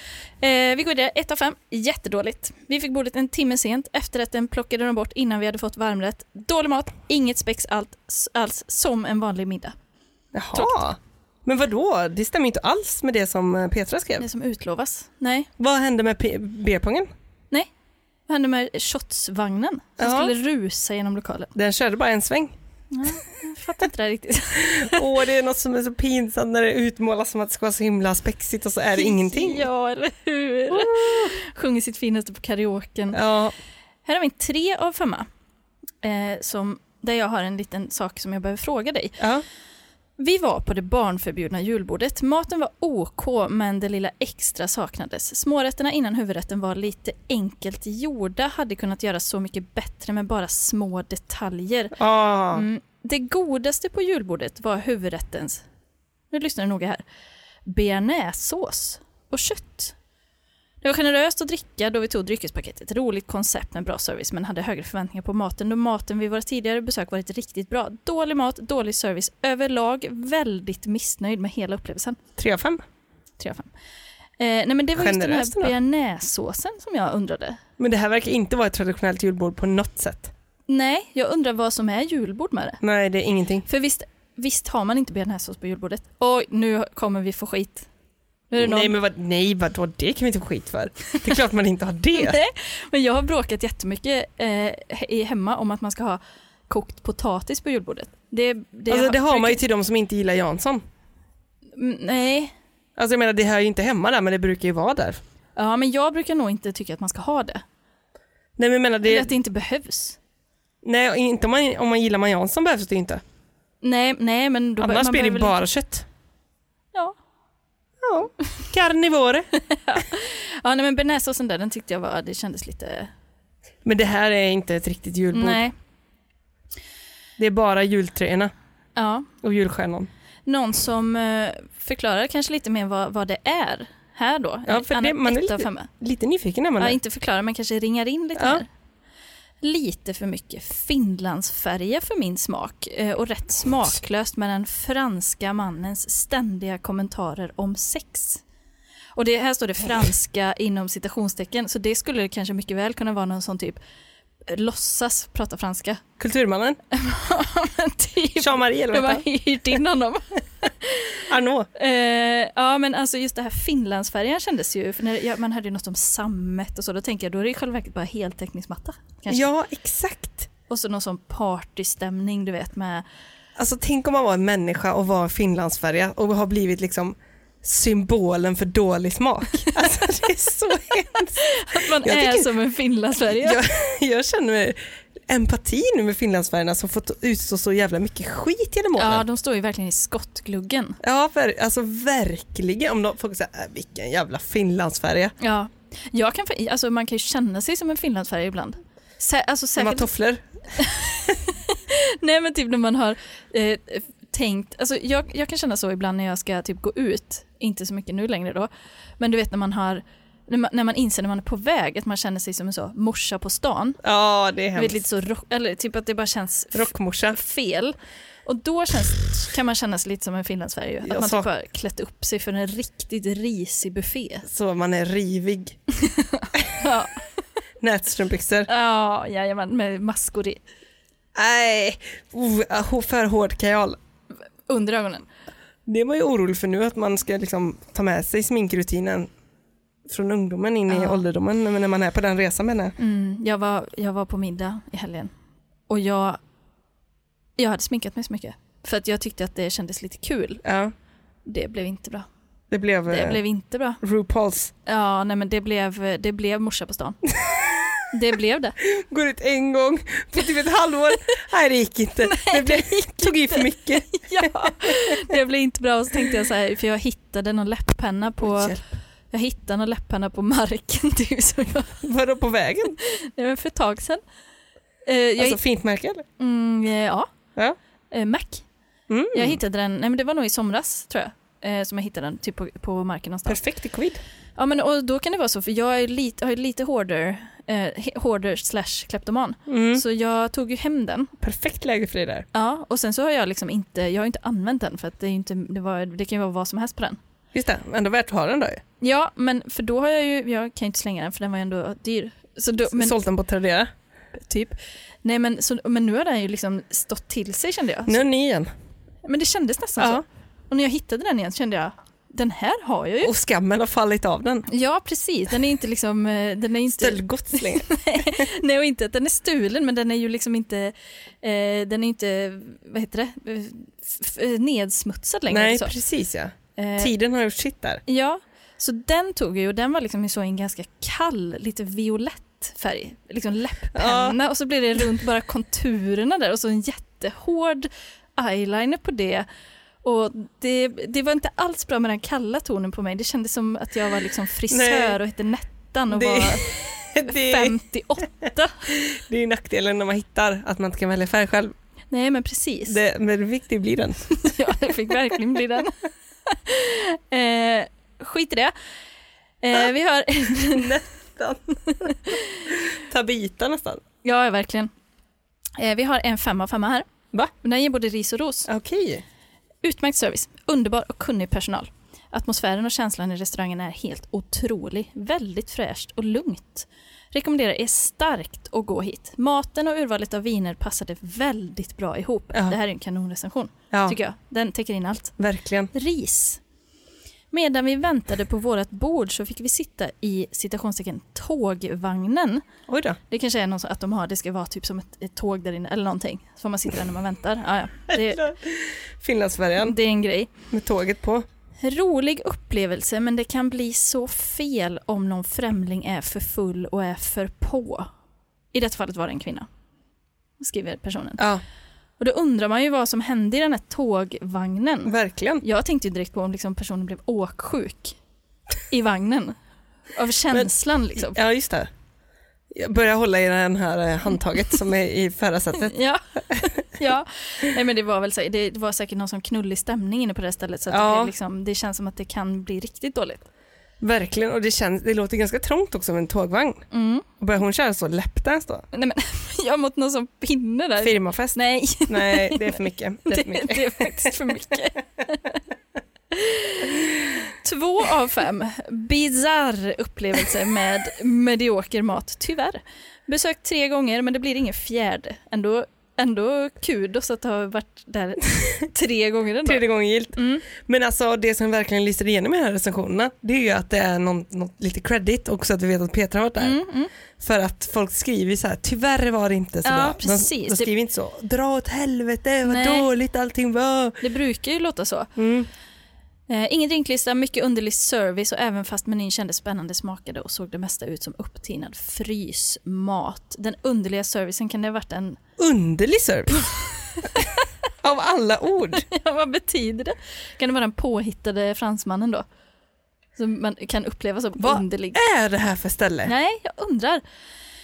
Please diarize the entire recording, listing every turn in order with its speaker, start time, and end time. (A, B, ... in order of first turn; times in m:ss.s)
0:00.4-0:09.8 A
0:10.3-0:14.3 B
0:10.5-0:10.8 A
0:14.2-0:15.5 A
0:15.6-0:17.1 B
0:18.3-0:21.5 A
0:20.0-0:20.3 B
0:21.6-0:22.5 B
0:22.9-0:25.1 A
0:24.7-0:29.7 B
0:28.9-0:33.2 A
0:30.7-0:31.4 B
0:33.1-0:33.5 B
0:34.0-0:35.3 A
0:36.0-0:39.2 A
0:39.2-0:39.4 B
0:40.2-0:52.0 A
0:52.0-0:52.7 B
0:52.5-0:55.6 A
0:56.3-0:57.0 A
0:57.7-1:00.0 A
1:00.8-1:12.2 A
1:12.4-1:12.8 B
1:13.4-1:13.7 A
1:14.4-1:17.6 A
1:15.0-1:15.8 B
1:17.8-1:20.3 B
1:20.7-1:22.8 A
1:22.8-1:23.7 B
1:23.7-1:27.9 A
1:28.5-1:28.9 A
1:28.6-1:32.4 B
1:32.2-1:39.6 A
1:38.9-1:40.8 B
1:41.8-1:42.5 A
1:43.0-1:45.2 B
1:45.6-1:47.6 A
1:48.6-1:49.3 B
1:49.0-1:50.2 A
1:50.8-1:53.2 B
1:53.8-1:55.6 A
1:54.8-1:56.1 B
1:58.0-1:59.5 B
1:59.7-2:03.1 A
2:03.8-2:05.6 B
2:05.3-2:05.7 A
2:07.4-2:08.5 B
2:09.0-2:09.3 A
2:09.4-2:10.1 B
2:10.5-2:15.9 A
2:14.7-2:17.0 B
2:16.8-2:18.7 A
2:18.4-2:18.6 B
2:19.6-2:28.4 A
2:29.2-2:33.8 A
2:34.5-2:36.0 A
2:36.2-2:36.8 B
2:36.9-2:41.2 A
2:38.4-2:39.2 B
2:41.3-2:41.7 B
2:41.8-2:49.4 A
2:49.3-2:50.5 B
2:50.7-2:53.0 A
2:53.6-3:02.5 B
3:01.4-3:03.6 A
3:03.3-3:09.2 B
3:09.0-3:11.0 A
3:11.0-3:15.4 B
3:15.4-3:20.1 A
3:19.8-3:20.5 B
3:20.8-3:28.7 A
3:29.2-3:34.0 A
3:34.0-3:35.0 B
3:34.8-3:38.0 A
3:36.7-3:37.4 B
3:38.5-3:44.5 A
3:41.0-3:41.5 B
3:44.5-3:45.8 B
3:46.0-3:47.2 A
3:47.8-3:48.7 B
3:48.7-3:50.6 A
3:51.4-3:54.0 B
3:54.7-3:55.3 A
3:55.9-3:59.3 B
4:00.1-4:03.0 B
4:00.9-4:01.2 A
4:03.0-4:05.3 A
4:05.9-4:06.4 A
4:07.6-4:10.6 A
4:10.6-4:10.9 B
4:11.5-4:12.3 A
4:12.7-4:13.4 B
4:13.1-4:14.0 A
4:14.0-4:14.7 B
4:14.9-4:17.2 A
4:17.4-4:18.0 B
4:18.1-4:18.8 A
4:18.8-4:25.2 B
4:22.2-4:28.8 A
4:28.4-4:28.9 B
4:29.3-4:32.0 A
4:32.0-4:33.0 B
4:33.0-4:34.2 A
4:35.1-4:35.6 A
4:35.4-4:36.2 B
4:36.4-4:37.3 A
4:38.1-4:38.6 A
4:39.1-4:39.6 B
4:39.3-4:43.6 A
4:43.5-4:44.2 B
4:44.6-4:51.3 A
4:49.7-4:50.0 B
4:51.4-4:52.5 B
4:52.5-4:57.2 A
4:57.5-4:58.8 B
4:59.0-5:03.2 A
5:02.9-5:03.9 B
5:04.3-5:08.2 A
5:08.1-5:08.7 B
5:09.3-5:13.3 A
5:10.0-5:10.2 B
5:13.2-5:14.7 B
5:14.7-5:25.9 A
5:16.9-5:18.4 B
5:25.5-5:28.0 B
5:26.8-5:27.1 A
5:28.1-5:39.5 A
5:33.9-5:34.4 B
5:40.0-5:48.9 A
5:44.7-5:45.2 B
5:46.1-5:47.8 B
5:48.9-5:51.8 B
5:52.1-5:53.0 A
5:52.9-5:54.3 B
5:54.3-5:58.7 A
5:59.6-6:00.9 A
6:00.6-6:02.2 B
6:01.9-6:02.6 A
6:02.7-6:04.0 B
6:04.2-6:04.9 A
6:05.8-6:07.1 A
6:07.6-6:08.7 A
6:08.7-6:09.2 B
6:09.8-6:25.4 A
6:23.9-6:24.2 B
6:25.4-6:25.9 B
6:25.9-6:26.6 A
6:27.5-6:32.6 A
6:32.9-6:33.2 B
6:33.3-6:38.4 A
6:38.1-6:40.0 B
6:39.8-6:40.5 A
6:40.7-6:41.5 B
6:41.8-6:48.1 A
6:48.7-6:49.7 A
6:50.6-6:51.4 A
6:52.2-6:58.2 A
6:55.1-6:55.6 B
6:58.9-6:59.6 A
7:00.1-7:01.4 A
7:00.5-7:01.9 B
7:02.7-7:06.0 B
7:05.8-7:13.5 A
7:06.5-7:06.8 B
7:10.9-7:11.3 B
7:14.0-7:16.9 B
7:16.9-7:17.3 A
7:17.4-7:18.9 B
7:18.9-7:25.6 A
7:21.0-7:24.5 B
7:26.3-7:40.7 A
7:39.6-7:46.8 B
7:46.6-7:47.1 A
7:47.4-7:54.2 B
7:49.8-7:50.9 A
7:52.6-7:53.1 A
7:54.2-7:55.3 A
7:55.4-7:55.7 B
7:56.5-8:05.4 A
8:05.6-8:06.6 B
8:07.2-8:07.6 A
8:08.0-8:09.1 B
8:09.1-8:12.4 A
8:13.4-8:15.2 A
8:14.6-8:16.3 B
8:16.2-8:17.2 A